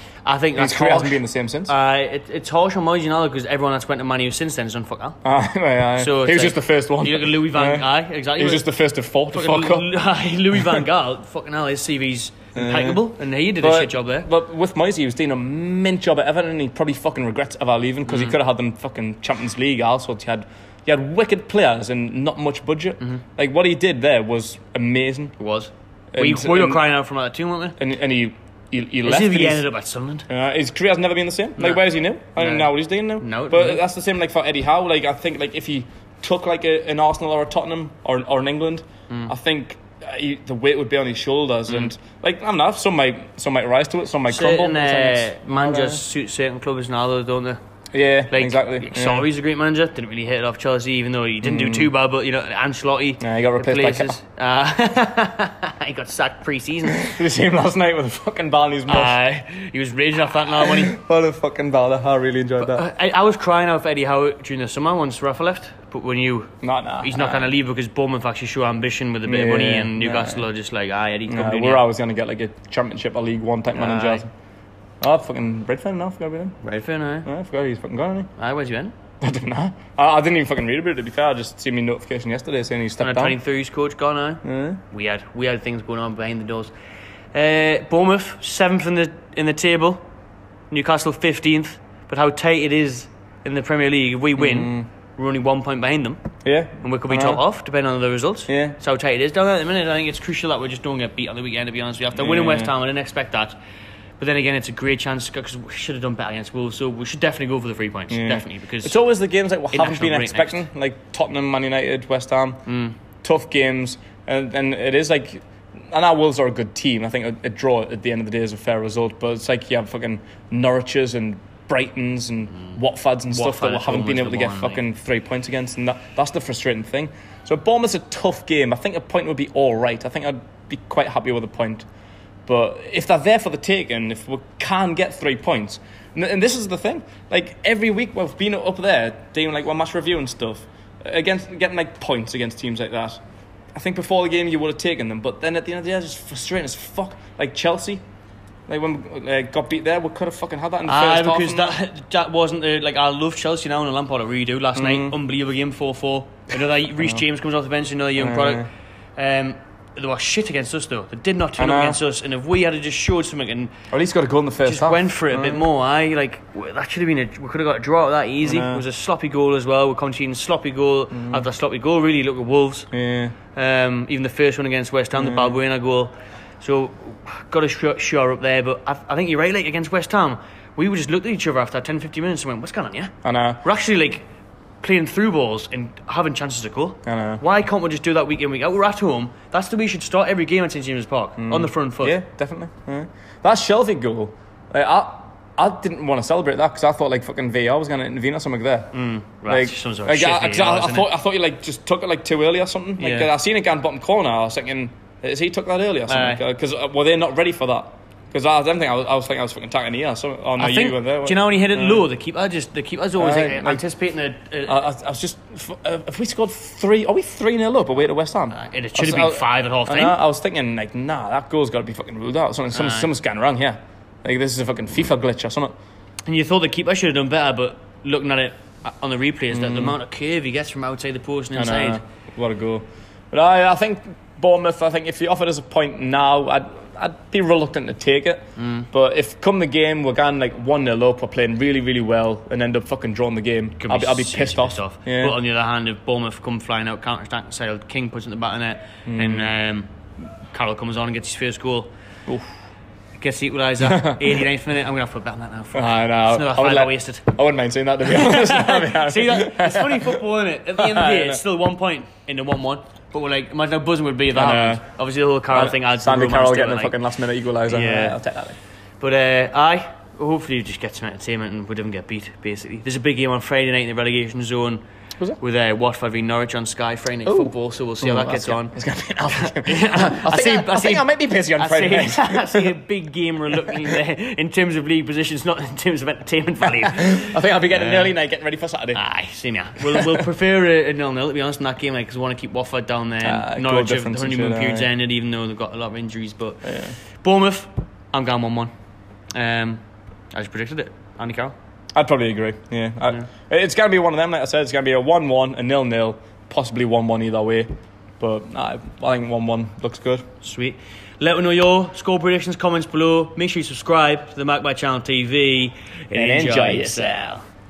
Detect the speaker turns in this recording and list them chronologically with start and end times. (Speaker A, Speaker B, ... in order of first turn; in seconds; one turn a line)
Speaker A: 0.2-5.2
Speaker B: 0.6-1.7
Speaker B: 5.2-9.9
Speaker A: 6.0-8.7
Speaker A: 9.3-14.3
Speaker B: 12.6-13.1
Speaker B: 13.6-25.3
Speaker A: 18.1-18.4
Speaker A: 25.4-27.8
Speaker B: 26.1-26.8
Speaker B: 27.8-29.6
Speaker A: 29.0-30.3
Speaker B: 30.3-46.0
Speaker A: 31.6-31.8
Speaker A: 32.4-33.8
Speaker A: 44.3-47.6
Speaker B: 47.9-49.3
Speaker A: 48.3-57.1
Speaker B: 51.4-51.9
Speaker B: 53.2-54.2
Speaker B: 56.9-59.1
Speaker A: 58.9-61.0
Speaker B: 60.6-62.9
Speaker A: 62.6-71.8
Speaker B: 66.6-67.5
Speaker B: 69.3-70.5
Speaker B: 71.3-74.3
Speaker A: 73.7-74.2
Speaker B: 75.0-76.6
Speaker A: 76.6-77.3
Speaker B: 77.2-78.3
Speaker A: 78.4-78.9
Speaker B: 79.2-83.4
Speaker A: 83.0-86.7
Speaker B: 84.4-84.8
Speaker A: 87.3-90.0
Speaker A: 90.7-96.2
Speaker B: 94.4-94.9
Speaker B: 96.5-97.4
Speaker A: 96.8-103.6
Speaker B: 98.5-98.8
Speaker B: 102.1-102.7
Speaker A: 104.2-109.0
Speaker B: 108.1-112.6
Speaker A: 109.7-110.7
Speaker A: 112.7-113.0
Speaker B: 113.2-131.9
Speaker A: 123.3-124.8
Speaker B: 132.5-143.2
Speaker B: 143.7-148.0
Speaker B: 148.7-151.8
Speaker A: 150.9-163.7
Speaker B: 154.8-155.1
Speaker B: 158.2-158.7
Speaker B: 161.6-162.0
Speaker B: 163.9-165.7
Speaker A: 164.7-172.9
Speaker B: 168.4-168.8
Speaker B: 171.1-171.5
Speaker B: 172.9-173.3
Speaker A: 173.5-184.2
Speaker B: 175.2-175.6
Speaker B: 183.2-183.6
Speaker A: 184.8-192.2
Speaker B: 187.1-187.4
Speaker B: 191.4-198.9
Speaker A: 198.9-201.1
Speaker B: 199.5-212.1
Speaker A: 203.0-203.3
Speaker A: 206.1-206.4
Speaker A: 210.6-214.8
Speaker B: 213.2-213.8
Speaker B: 214.7-225.7
Speaker A: 218.5-220.2
Speaker A: 222.7-223.1
Speaker A: 226.3-232.0
Speaker B: 229.5-230.0
Speaker B: 231.6-245.3
Speaker A: 238.6-238.9
Speaker A: 243.8-249.9
Speaker B: 249.1-249.5
Speaker A: 250.5-251.9
Speaker A: 253.2-257.2
Speaker B: 253.8-254.3
Speaker B: 255.7-260.2
Speaker A: 258.1-267.0
Speaker B: 260.8-261.4
Speaker B: 264.3-264.8
Speaker B: 265.5-268.6
Speaker A: 267.7-268.2
Speaker A: 269.0-274.8
Speaker A: 275.4-278.7
Speaker B: 277.3-282.8
Speaker A: 279.3-288.1
Speaker B: 283.5-284.0
Speaker B: 286.8-289.0
Speaker A: 288.9-298.7
Speaker B: 289.8-290.3
Speaker B: 293.2-294.9
Speaker B: 296.6-296.9
Speaker A: 299.3-299.8
Speaker A: 300.3-301.6
Speaker B: 301.9-307.7
Speaker B: 308.2-310.2
Speaker A: 310.4-317.4
Speaker B: 316.1-317.2